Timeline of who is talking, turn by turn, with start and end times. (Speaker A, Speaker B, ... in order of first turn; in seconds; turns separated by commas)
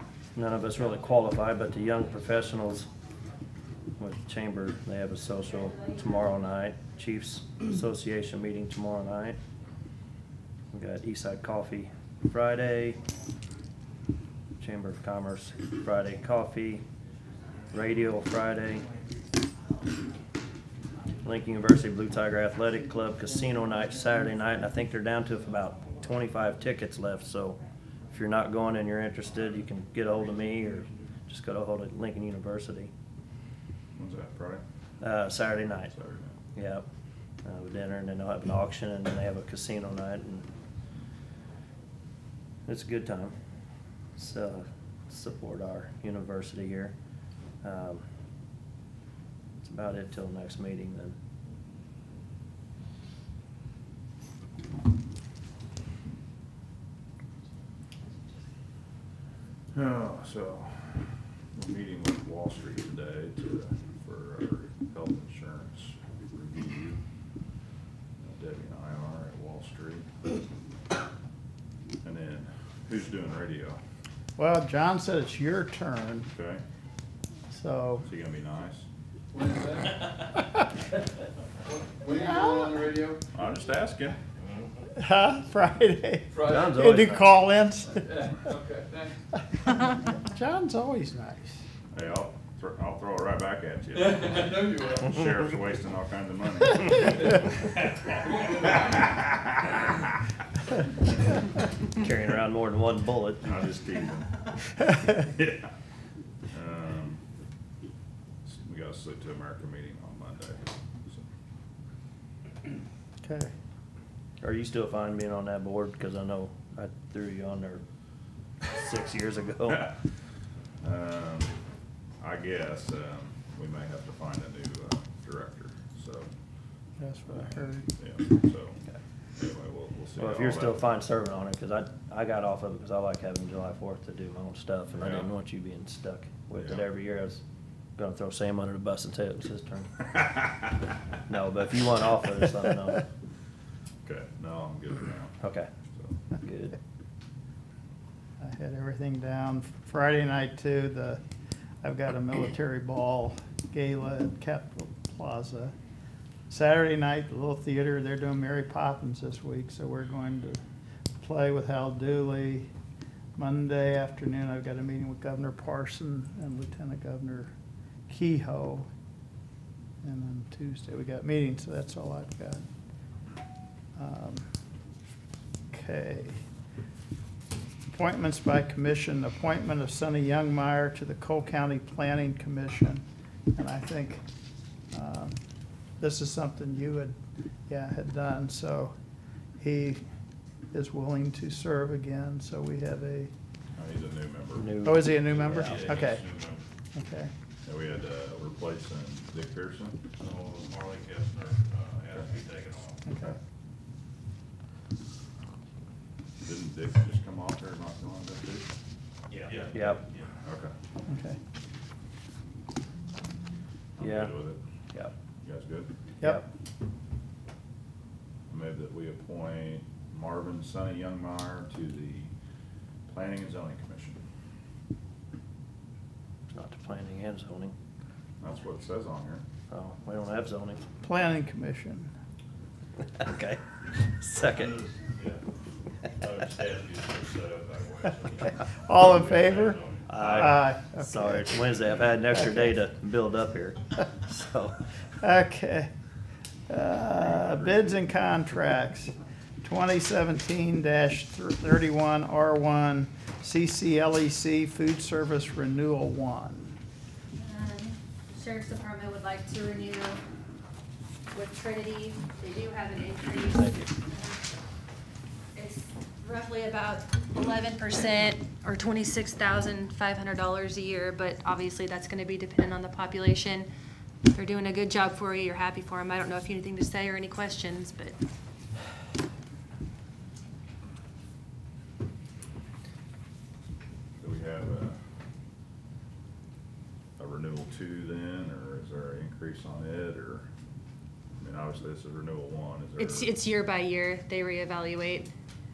Speaker A: 0.3-2.9, Speaker A: 4.0-9.4, Speaker A: 10.7-13.0, Speaker A: 14.6-16.8, Speaker A: 17.7-18.9, Speaker A: 21.2-27.6, Speaker A: 28.1-32.9, Speaker B: 34.0-34.6, Speaker A: 35.0-35.9, Speaker B: 35.9-36.4, Speaker A: 36.5-36.8, Speaker A: 37.4-40.5, Speaker A: 42.6-43.3, Speaker A: 44.1-46.9, Speaker A: 47.6-48.0, Speaker A: 49.6-51.2, Speaker B: 59.7-67.0, Speaker B: 68.2-70.1, Speaker B: 72.0-73.8, Speaker C: 74.4-76.3, Speaker B: 76.3-76.6, Speaker C: 77.5-78.0, Speaker B: 78.0-78.8, Speaker D: 79.3-80.0, Speaker D: 81.7-83.2, Speaker C: 82.1-82.8, Speaker B: 83.3-84.2, Speaker C: 84.9-88.3, Speaker D: 86.3-86.8, Speaker A: 86.4-87.3, Speaker D: 88.1-89.1, Speaker C: 89.6-91.6, Speaker B: 91.9-100.2, Speaker D: 94.0-95.1, Speaker D: 98.2-98.9, Speaker A: 101.9-103.5, Speaker B: 103.4-105.7, Speaker B: 106.5-107.2, Speaker B: 108.4-111.2, Speaker C: 113.2-113.5, Speaker A: 114.4-117.8, Speaker A: 118.7-119.9, Speaker B: 120.8-121.5, Speaker B: 122.2-126.3, Speaker C: 127.0-127.9, Speaker B: 128.0-128.8, Speaker B: 129.3-130.8, Speaker A: 130.2-137.4, Speaker B: 135.0-135.3, Speaker B: 136.6-136.8, Speaker A: 138.0-140.0, Speaker B: 140.2-140.6, Speaker A: 141.3-143.0, Speaker B: 144.0-145.4, Speaker A: 145.4-145.7, Speaker A: 146.3-146.8, Speaker C: 148.4-151.2, Speaker C: 151.8-155.7, Speaker C: 156.5-160.6, Speaker C: 161.2-162.7, Speaker C: 163.3-167.5, Speaker C: 168.1-168.9, Speaker C: 170.0-172.6, Speaker C: 173.9-174.5, Speaker C: 175.7-176.4, Speaker C: 177.9-183.0, Speaker C: 183.5-184.2, Speaker C: 184.9-185.4, Speaker C: 186.0-187.1, Speaker C: 187.7-188.9, Speaker C: 189.6-190.0, Speaker C: 190.7-193.3, Speaker B: 193.7-194.7, Speaker A: 194.6-195.5, Speaker C: 194.8-196.3, Speaker E: 195.3-196.6, Speaker C: 196.9-197.3, Speaker B: 197.6-200.0, Speaker E: 200.2-203.0, Speaker C: 203.1-203.3, Speaker B: 206.4-208.7, Speaker E: 209.3-210.3, Speaker A: 209.7-210.0, Speaker B: 210.4-210.7, Speaker C: 211.1-211.4, Speaker B: 214.0-214.6, Speaker A: 214.0-215.1, Speaker B: 215.4-215.9, Speaker B: 218.5-222.3, Speaker B: 223.1-224.2, Speaker A: 226.5-227.7, Speaker B: 228.4-229.4, Speaker A: 229.7-230.8, Speaker C: 231.0-232.1, Speaker A: 233.1-234.8, Speaker E: 236.2-240.0, Speaker C: 238.8-241.6, Speaker A: 240.1-244.8, Speaker C: 242.3-242.6, Speaker C: 245.2-245.9, Speaker C: 246.7-256.8, Speaker B: 247.2-247.8, Speaker F: 257.4-260.2, Speaker F: 261.3-264.5, Speaker F: 265.5-273.7, Speaker F: 274.3-278.1, Speaker B: 284.2-285.0, Speaker B: 287.2-290.5, Speaker B: 291.4-293.4, Speaker F: 293.0-295.3